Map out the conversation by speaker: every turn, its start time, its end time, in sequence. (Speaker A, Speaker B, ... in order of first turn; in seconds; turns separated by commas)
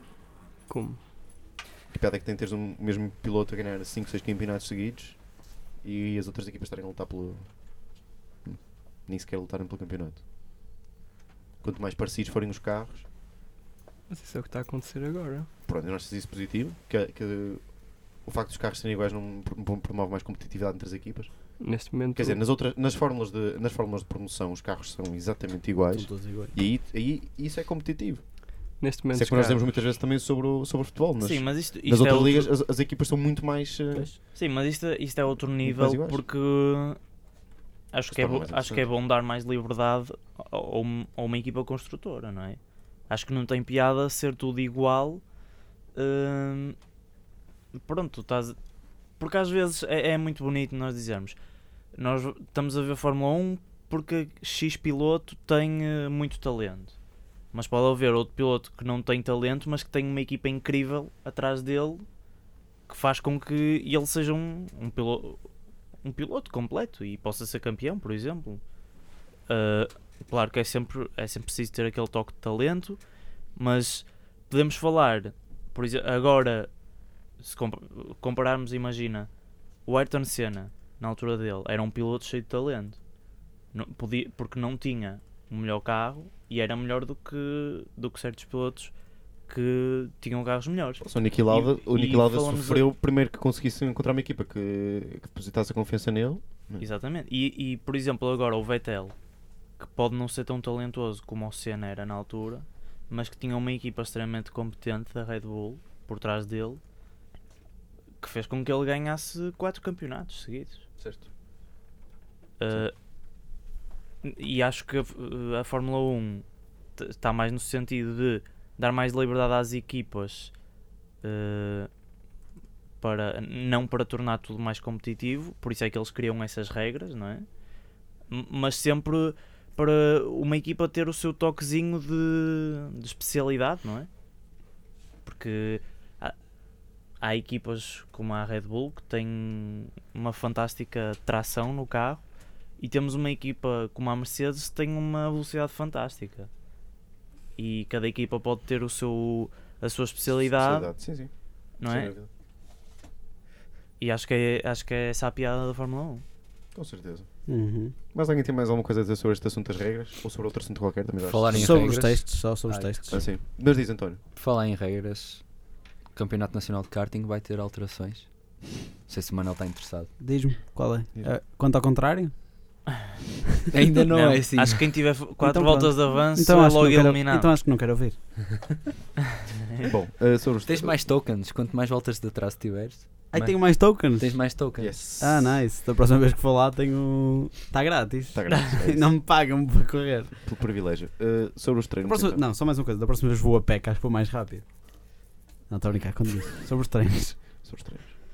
Speaker A: 0.7-1.0, Speaker B: 1.9-5.2, Speaker B: 5.8-7.5, Speaker B: 8.4-10.2, Speaker B: 11.6-13.1, Speaker A: 14.1-15.5, Speaker B: 15.7-17.6, Speaker B: 18.2-21.5, Speaker A: 21.6-22.4, Speaker B: 22.1-28.2, Speaker C: 25.9-26.6, Speaker A: 28.8-29.9, Speaker B: 29.1-34.1, Speaker D: 31.2-32.5, Speaker C: 33.9-34.2, Speaker D: 34.3-37.0, Speaker B: 35.6-36.2, Speaker D: 37.9-45.2, Speaker B: 38.1-38.9, Speaker D: 45.9-46.8, Speaker D: 47.7-48.5, Speaker D: 49.2-51.4, Speaker D: 51.9-56.9, Speaker D: 57.5-62.0, Speaker D: 62.9-65.4, Speaker D: 66.0-68.6, Speaker D: 69.5-73.0, Speaker D: 73.5-76.7, Speaker D: 77.4-79.3, Speaker D: 79.8-83.0, Speaker D: 83.7-88.9, Speaker D: 89.5-92.9, Speaker B: 91.0-96.8, Speaker D: 96.8-99.1, Speaker D: 99.8-106.8, Speaker D: 108.2-110.9, Speaker B: 111.0-111.3, Speaker D: 112.6-112.9, Speaker D: 114.2-116.4, Speaker D: 117.0-120.5, Speaker D: 121.2-121.9, Speaker D: 123.0-127.5, Speaker D: 128.3-134.1, Speaker D: 135.2-136.3, Speaker D: 137.2-142.2, Speaker D: 142.8-146.5, Speaker D: 147.6-150.9, Speaker B: 150.4-151.3, Speaker D: 151.8-152.1, Speaker B: 151.9-152.3, Speaker D: 154.0-156.2, Speaker B: 156.7-157.3, Speaker C: 157.5-157.9, Speaker B: 158.1-161.7, Speaker E: 161.2-163.3, Speaker C: 161.5-163.2, Speaker B: 163.1-164.2, Speaker E: 164.3-165.4, Speaker E: 166.1-170.1, Speaker C: 170.2-172.3, Speaker E: 173.7-174.8, Speaker D: 174.0-177.5, Speaker C: 175.4-178.4, Speaker B: 179.8-181.0, Speaker E: 180.6-185.1, Speaker C: 183.3-184.7, Speaker B: 184.8-185.6, Speaker C: 185.2-190.3, Speaker B: 188.3-189.1, Speaker B: 190.4-192.4, Speaker C: 192.0-194.7, Speaker C: 195.7-197.4, Speaker B: 197.6-198.1